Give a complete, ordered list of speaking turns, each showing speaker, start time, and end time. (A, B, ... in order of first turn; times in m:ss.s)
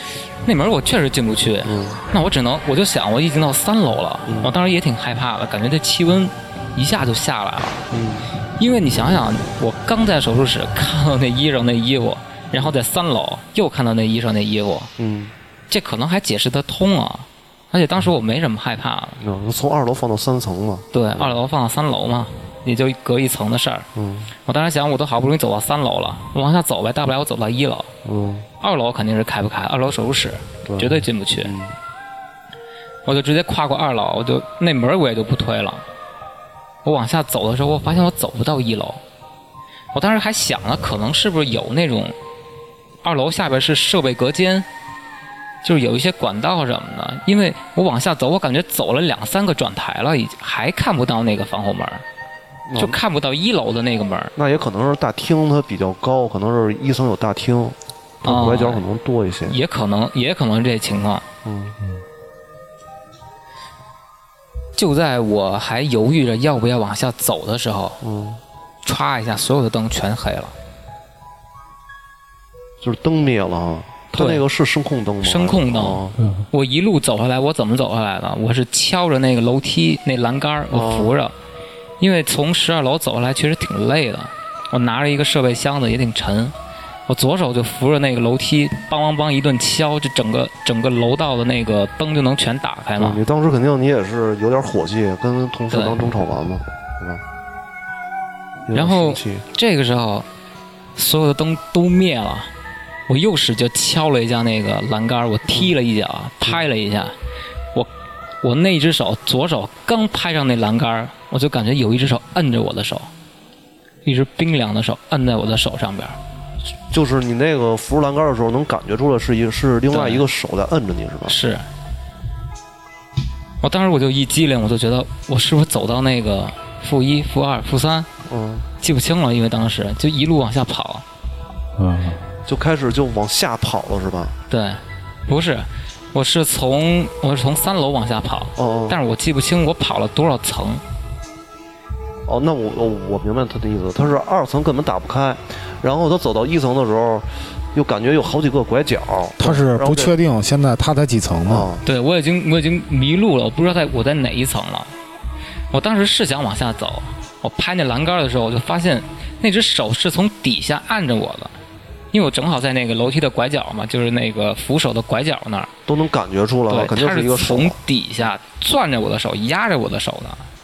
0:00.4-0:07.8 A
0:01.6-0:02.0 B
0:04.3-0:04.5 B
0:07.9-0:08.3 B
0:08.6-0:14.9 A
0:15.0-0:15.3 B
0:15.7-0:19.2 A
0:19.2-0:21.3 B
0:20.9-0:23.9 A
0:24.0-0:24.3 B
0:24.4-0:27.9 A
0:28.0-0:28.4 B
0:28.6-0:31.5 A
0:30.6-0:30.9 B
0:31.4-0:31.7 B
0:33.0-0:35.8 A
0:36.8-0:39.0 A
0:39.9-0:42.2 A
0:43.0-0:44.6 A
0:45.6-0:52.0 A
0:52.7-0:53.0 B
0:52.8-0:54.3 A
0:54.4-0:59.5 B
0:58.2-0:58.8 A
0:59.5-1:01.3 A
1:01.4-1:01.8 B
1:04.8-1:08.0 A
1:08.0-1:08.4 B
1:08.8-1:10.5 A
1:12.8-1:16.2 B
1:14.2-1:14.4 A
1:15.2-1:21.3 A
1:20.7-1:21.1 B
1:22.0-1:26.5 A
1:27.1-1:33.2 A
1:33.0-1:37.2 B
1:35.7-1:36.0 A
1:38.7-1:39.4 B
1:38.7-1:40.3 A
1:41.0-1:42.5 A
1:43.1-1:47.1 A
1:48.4-1:53.1 A
1:54.0-1:56.2 A
1:56.9-2:01.4 B
1:59.9-2:00.2 A
2:01.3-2:01.7 A
2:03.6-2:08.1 A
2:08.2-2:08.6 B
2:08.8-2:11.0 A
2:11.8-2:12.2 C
2:12.4-2:14.3 B
2:14.5-2:20.8 A
2:18.6-2:19.0 B
2:22.3-2:30.1 B
2:29.4-2:31.7 C
2:31.5-2:31.8 B
2:31.8-2:34.9 A
2:35.7-2:41.5 A
2:42.1-2:45.7 A
2:45.9-2:47.8 B
2:46.7-2:50.5 A